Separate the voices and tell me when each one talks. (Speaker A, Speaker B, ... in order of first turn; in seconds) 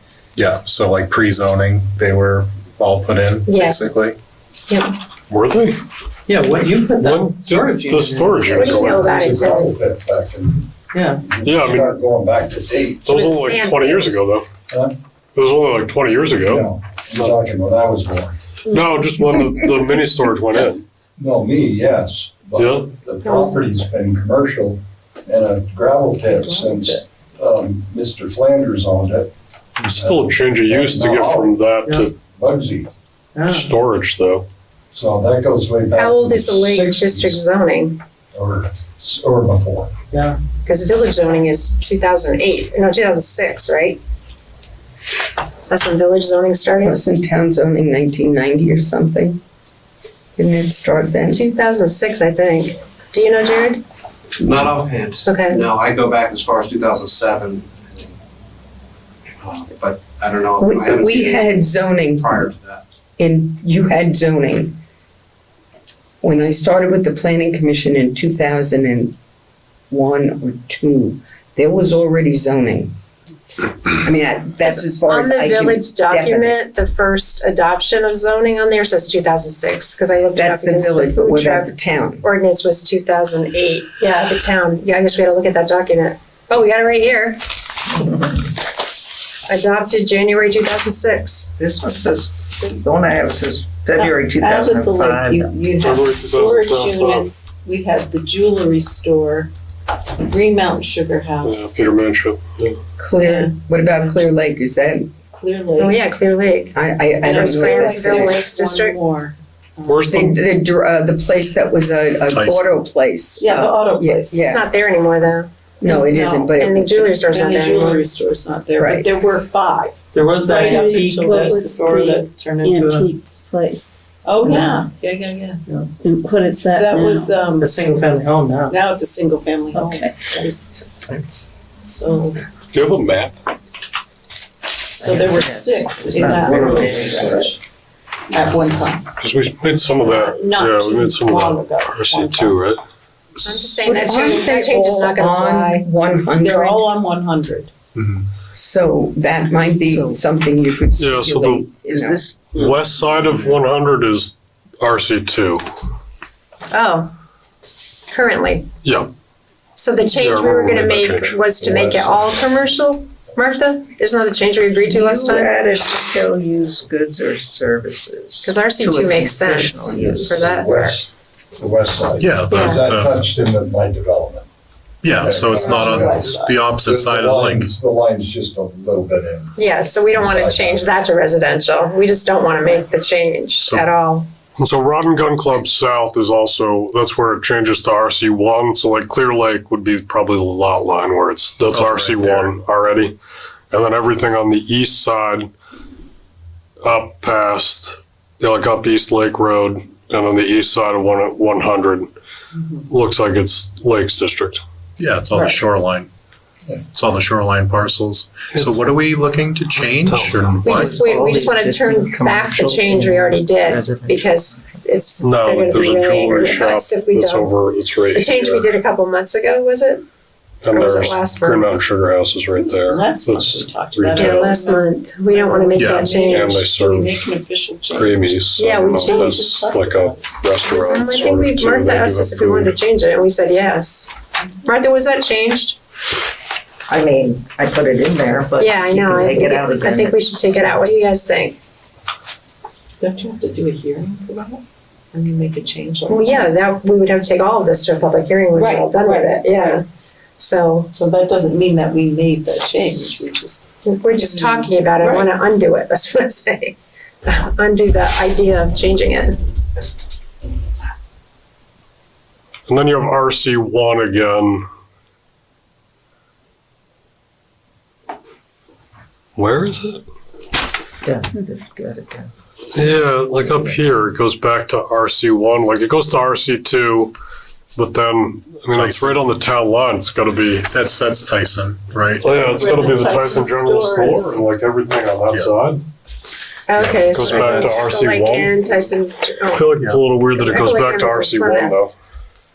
Speaker A: 0.3-4.2, 112.3-112.7, 147.9-148.3, 172.2-173.2, 175.0-177.7, 183.6-183.9, 191.7-192.5, 205.0-206.1, 206.7-210.9, 225.7-226.1, 278.7-279.2, 280.7-282.3, 286.8-287.8
Speaker B: 3.5-3.8, 8.5-9.7, 13.1-14.2, 23.2-23.6, 36.0-38.0, 40.6-44.0, 45.7-47.0, 51.3-53.8, 55.3-55.6, 74.7-87.4, 89.5-91.5, 105.8-106.8, 107.3-109.0, 114.4-115.5, 116.5-118.0, 143.4-145.8, 156.7-157.1, 158.1-158.7, 159.8-165.8, 168.4-171.0, 172.5-172.8, 179.6-184.3, 210.6-217.5, 218.1-220.0, 220.7-221.7, 224.2-226.6, 228.6-229.5, 230.7-235.8, 238.6-241.6, 246.1-249.8, 250.4-250.9, 253.8-259.4, 286.7-291.8
Speaker C: 5.3-5.8, 6.9-9.1, 11.4-11.9, 13.0-14.4, 15.3-17.4, 18.7-20.8, 22.5-22.9, 29.8-32.1, 33.5-34.4, 95.8-97.3, 101.4-102.8, 109.8-110.4, 132.7-133.4, 139.2-142.8, 151.0-151.6, 152.5-155.6, 158.8-159.1, 160.2-161.3, 184.6-193.2, 193.7-195.5, 196.8-202.1, 202.9-204.6, 208.5-208.9, 210.0-210.6, 215.2-218.7, 220.6-224.5, 226.2-227.3, 227.9-232.7, 262.7-264.6, 269.4-270.0, 272.7-277.1, 277.7-280.7, 282.2-285.8, 287.1-288.5, 289.5-291.9
Speaker D: 6.3-8.7, 10.9-11.2, 33.3-33.7, 40.1-40.4, 120.1-121.9, 122.6-123.0, 124.4-124.7, 127.5-128.8
Speaker E: 8.6-10.6, 11.2-13.3, 14.7-14.9, 16.4-18.4, 21.2-31.6, 32.3-32.9, 34.9-37.4, 38.3-39.9, 161.6-162.2, 169.9-174.5, 175.1-179.6, 180.1-180.9
Speaker F: 26.3-27.0, 93.9-99.5, 100.2-101.8, 103.2-103.5, 105.3-106.0, 107.2-110.1, 113.4-114.4, 115.8-116.5, 117.3-123.1, 124.2-125.6, 126.6-127.8, 128.7-130.7, 131.8-132.4, 135.0-137.6, 138.3-139.1, 139.8-142.6, 144.0-144.4, 146.4-147.7, 175.5-176.7, 222.6-231.3, 243.0-246.5, 248.6-249.8, 250.9-255.3, 282.3-284.4
Speaker G: 46.8-49.4, 50.4-51.4, 60.6-62.5, 63.2-64.8, 66.2-69.2, 69.9-72.9, 74.0-76.5, 80.3-82.2, 103.0-105.1, 106.7-108.4, 110.1-114.7, 115.8-117.2, 118.8-119.1, 143.8-146.9, 148.5-152.2
Speaker H: 54.4-58.1, 59.4-61.6, 62.2-62.8
Speaker I: 88.0-88.3, 91.6-95.5, 129.8-130.4, 131.0-131.5, 135.0-137.5, 149.9-150.2, 151.8-152.6, 164.9-170.6, 210.7-214.2, 236.9-240.2, 271.0-272.3
Speaker J: 120.8-124.1, 126.0-127.4